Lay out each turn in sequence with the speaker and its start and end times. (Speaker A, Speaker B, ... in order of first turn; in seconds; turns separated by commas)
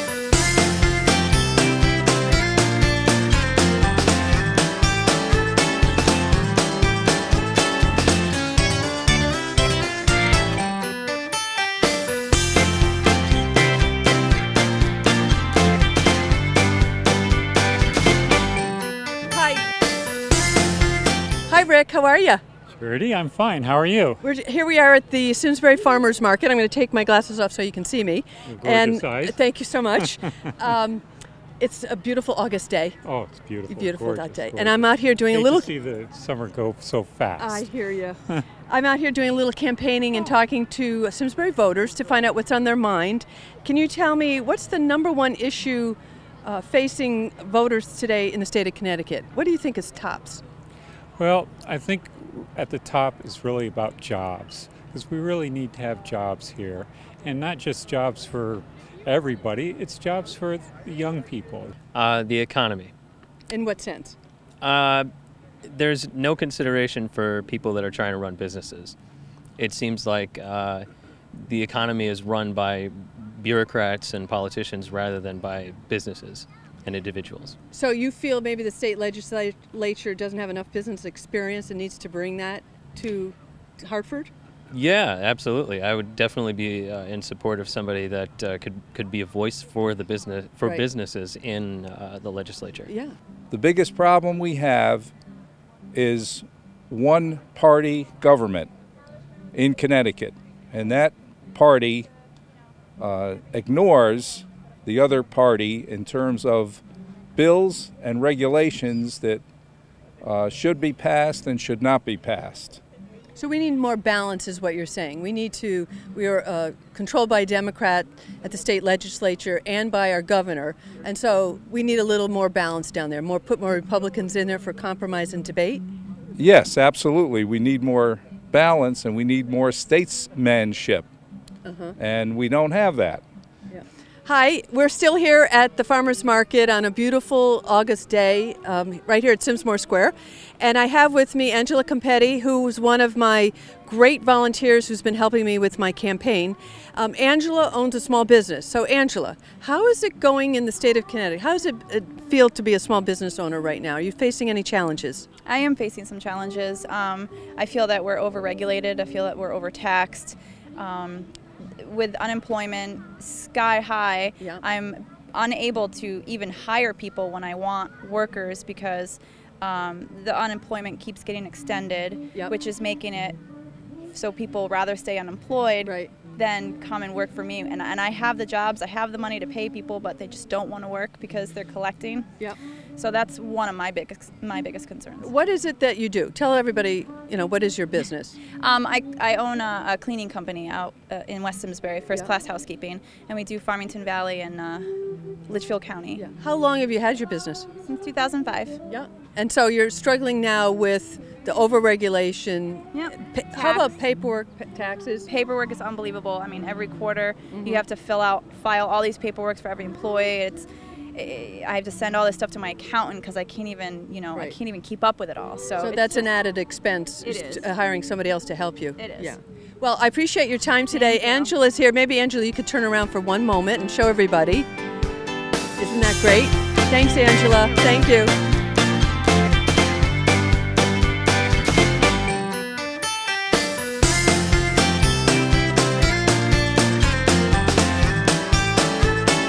Speaker A: 19.3-19.6, Speaker A: 21.5-22.4, Speaker B: 22.7-24.2, Speaker A: 24.2-31.0, Speaker B: 28.4-29.4, Speaker A: 31.6-33.0, Speaker B: 33.0-37.7, Speaker A: 33.7-35.7, Speaker A: 37.4-50.4, Speaker B: 51.2-61.7, Speaker C: 61.9-62.9, Speaker A: 63.5-64.2, Speaker C: 64.6-65.1, Speaker C: 65.6-69.0, Speaker C: 69.6-77.6, Speaker A: 77.7-84.3, Speaker C: 84.7-92.9, Speaker A: 92.9-93.1, Speaker D: 93.5-95.1, Speaker D: 95.9-98.7, Speaker D: 99.5-102.1, Speaker D: 103.0-106.8, Speaker D: 107.3-109.4, Speaker D: 110.2-112.8, Speaker A: 113.3-125.8, Speaker D: 126.3-131.1, Speaker A: 131.6-131.9, Speaker D: 132.0-133.2, Speaker A: 133.7-155.2, Speaker E: 155.4-173.4, Speaker E: 174.1-182.3, Speaker A: 175.8-176.1, Speaker E: 183.0-185.3, Speaker A: 185.2-188.4, Speaker E: 188.6-194.9, Speaker E: 195.5-196.2, Speaker A: 196.2-197.7, Speaker E: 197.8-198.8, Speaker A: 198.9-205.3, Speaker E: 202.9-203.9, Speaker E: 205.3-216.3, Speaker A: 207.5-207.8, Speaker A: 215.8-224.7, Speaker E: 217.2-217.6, Speaker E: 219.0-219.3, Speaker E: 220.9-221.5, Speaker A: 225.8-228.3